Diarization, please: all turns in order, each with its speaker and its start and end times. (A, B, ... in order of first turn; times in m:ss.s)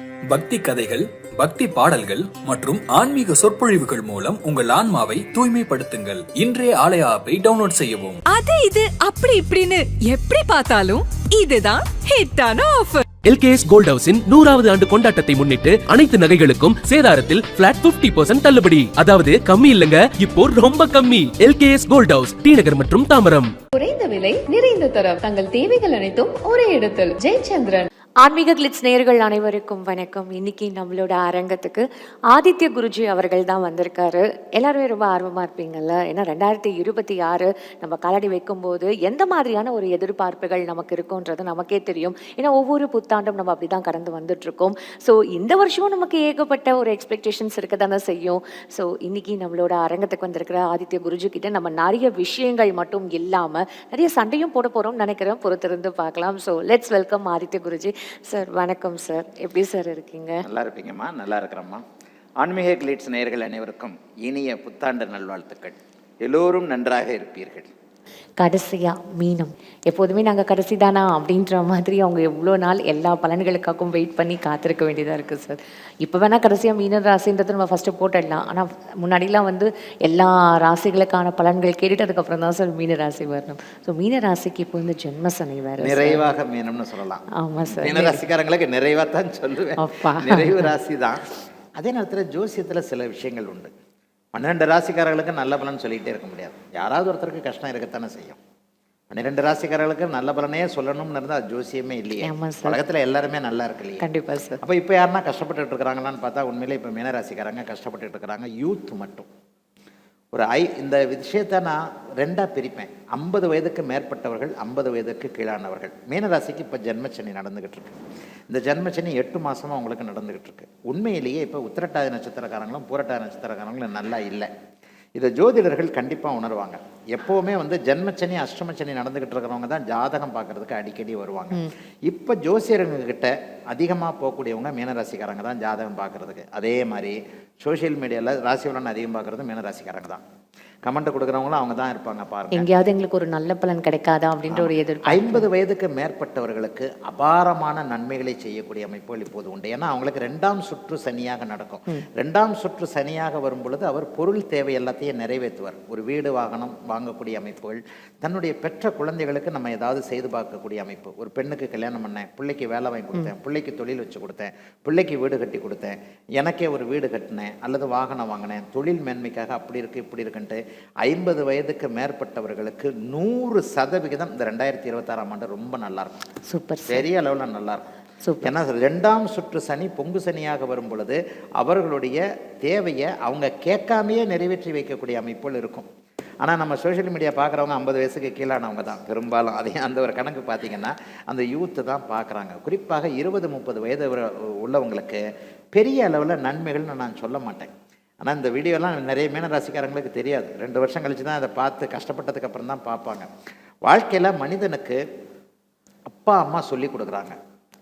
0:00.3-0:08.2 A
0:08.3-0:13.0 B
0:13.2-0:23.5 C
0:23.8-0:25.4 D
0:26.1-0:27.8 D
0:28.2-1:00.4 E
1:00.4-1:01.8 F
1:02.4-1:07.7 F
1:08.4-1:26.2 E
1:25.8-1:31.2 F
1:27.4-1:28.2 E
1:29.8-1:30.7 E
1:31.8-1:33.7 F
1:34.3-1:38.4 F
1:39.1-1:44.0 F
1:42.2-1:42.8 E
1:44.0-1:44.6 E
1:44.6-1:49.3 F
1:50.3-1:58.0 F
1:58.5-2:04.5 F
2:05.2-2:20.2 F
2:20.8-2:22.7 F
2:22.5-2:25.4 E
2:24.5-2:56.2 F
2:56.5-2:57.0 E
2:56.9-2:57.8 F
2:58.2-2:58.5 E
2:58.4-3:05.9 F
3:06.4-3:15.2 F
3:15.7-3:17.7 F
3:18.2-3:23.3 F
3:23.8-3:25.0 F
3:26.1-3:27.4 F